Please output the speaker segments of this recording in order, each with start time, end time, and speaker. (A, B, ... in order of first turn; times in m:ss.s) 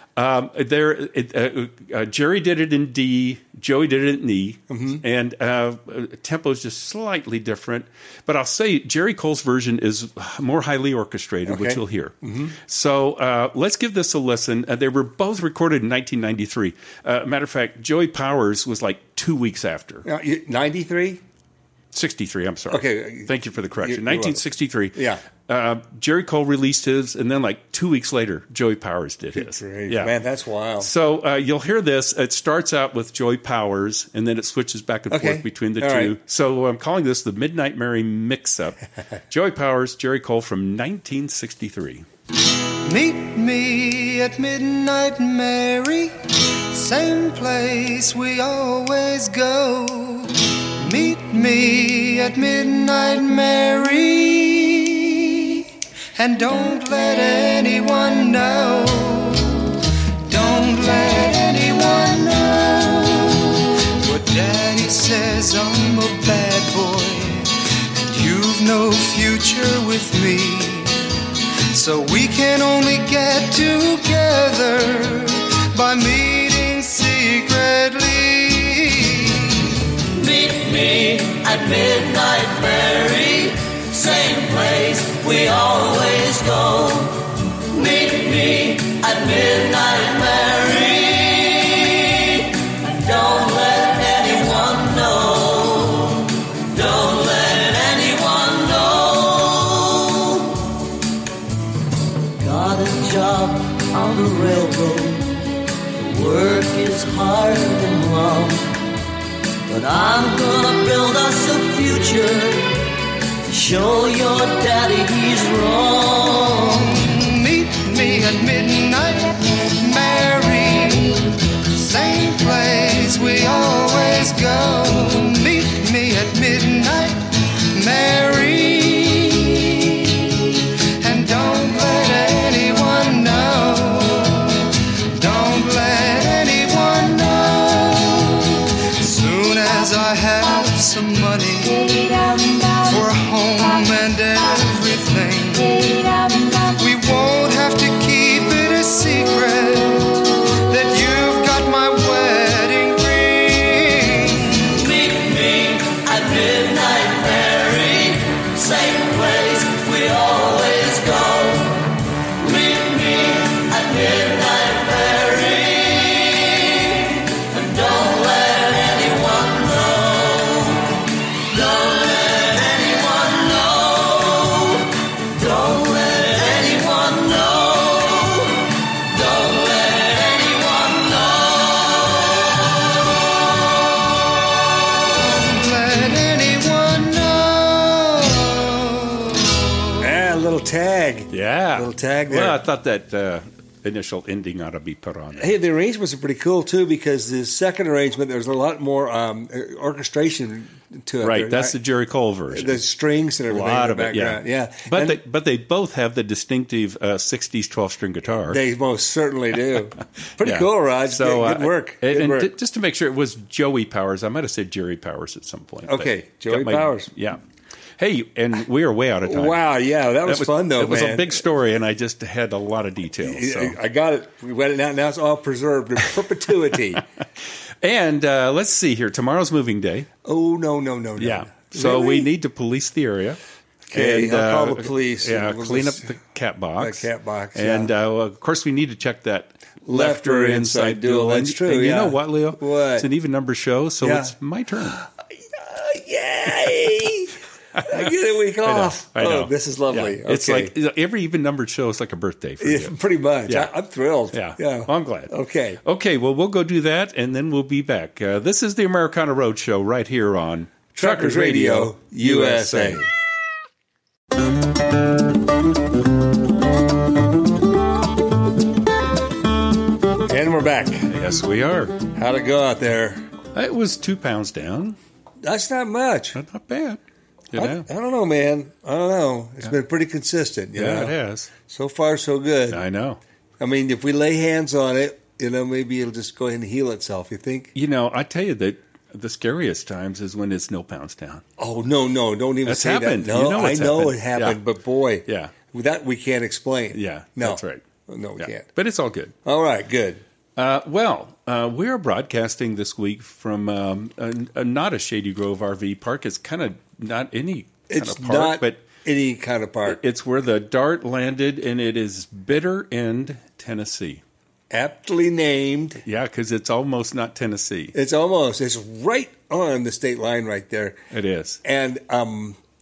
0:00.2-0:12.1 A
0:04.7-0:05.0 B
0:11.4-0:12.5 B
0:12.7-0:20.0 A
0:20.0-0:21.2 B
0:21.9-0:30.1 A
0:22.7-0:24.4 B
0:24.9-0:25.2 B
0:29.3-0:30.9 B
0:30.8-0:38.8 A
0:35.1-0:36.1 B
0:39.3-0:42.0 A
0:42.8-0:46.2 C
0:46.7-1:11.1 C
1:11.7-1:19.7 C
1:20.1-1:40.7 D
1:42.4-1:45.4 D
1:46.0-1:48.6 D
1:49.7-1:52.7 D
1:53.5-1:56.9 D
1:56.9-2:22.2 C
2:22.7-2:34.7 C
2:34.7-2:41.8 D
2:42.4-3:02.4 D
3:05.1-3:09.8 C
3:10.0-3:12.6 B
3:11.3-3:15.5 A
3:15.4-3:21.7 B
3:21.2-3:22.8 A
3:22.5-3:25.2 B
3:23.5-3:28.6 A
3:28.5-3:32.5 B
3:30.4-3:37.4 A
3:35.8-3:37.1 B
3:38.0-3:39.6 A
3:39.2-3:41.4 B
3:40.2-3:43.8 A
3:43.2-3:47.0 B
3:47.8-3:50.1 A
3:50.2-3:52.3 B
3:51.2-3:53.4 A
3:53.9-3:56.0 B
3:53.9-4:05.0 A
3:56.8-3:57.9 B
3:59.8-4:03.1 B
4:04.0-4:04.3 B
4:05.5-4:10.7 B
4:08.6-4:12.9 A
4:12.6-4:15.8 B
4:14.3-4:15.3 A
4:15.8-4:23.0 A
4:20.9-4:23.1 B
4:30.3-4:31.1 B
4:31.1-4:32.0 A
4:32.1-4:33.2 B
4:33.5-4:35.0 A
4:35.4-4:36.4 B
4:36.3-4:37.0 A
4:37.5-4:37.8 A
4:37.6-4:41.1 B
4:40.8-4:41.5 A
4:41.7-4:42.8 B
4:42.7-4:43.2 A
4:43.6-4:47.7 B
4:47.7-4:51.4 A
4:51.6-4:58.7 B
4:52.6-4:54.6 A
4:55.2-4:55.5 A
4:56.9-4:57.8 A
4:58.4-4:59.3 A
4:59.4-5:00.2 B
5:00.6-5:08.8 A
5:07.9-5:10.0 B
5:09.8-5:14.2 A
5:14.7-5:16.0 B
5:16.0-5:17.9 A
5:17.9-5:21.0 B
5:21.1-5:21.6 A
5:21.6-5:22.6 B